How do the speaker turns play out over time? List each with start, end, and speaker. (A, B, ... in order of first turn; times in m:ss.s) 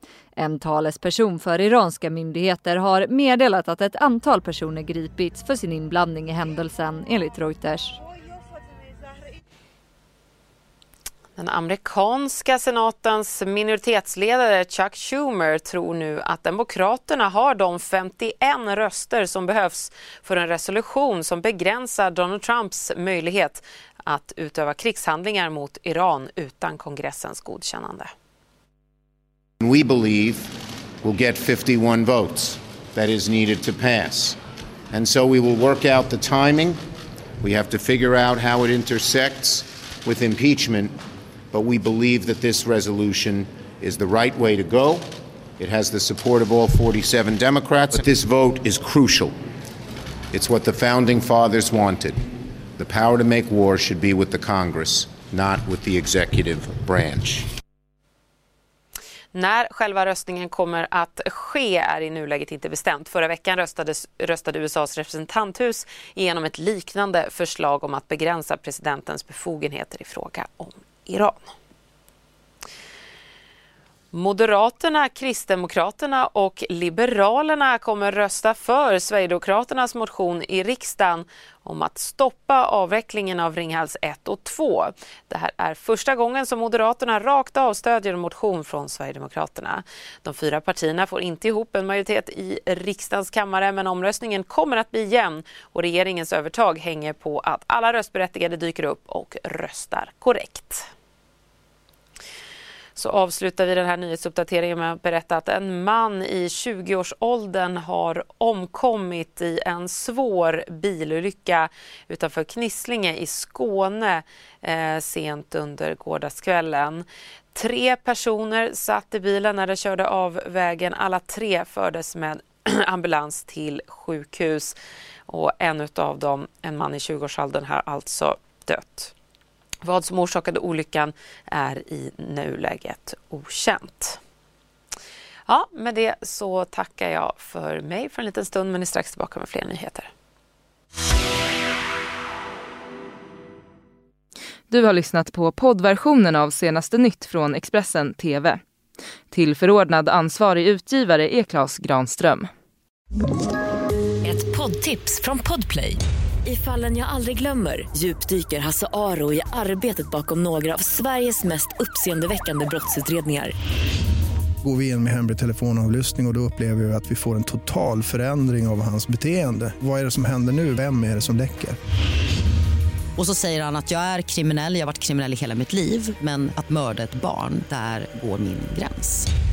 0:00.4-0:08.0 A
0:11.4-0:28.1 B
0:29.6-0:34.4 C
0:34.9-0:36.8 C
0:37.4-0:40.9 C
0:41.5-0:45.1 C
0:45.6-0:49.3 C
0:50.3-0:52.2 C
0:52.8-0:57.4 C
0:59.3-1:11.5 B
1:14.1-1:40.9 B
1:43.0-2:04.8 B
2:05.3-2:09.1 B
2:09.8-2:14.2 B
2:15.5-2:20.1 B
2:24.7-2:28.6 D
2:29.3-2:32.5 D
2:34.2-2:43.5 E
2:44.6-2:51.8 F
2:53.2-2:59.3 G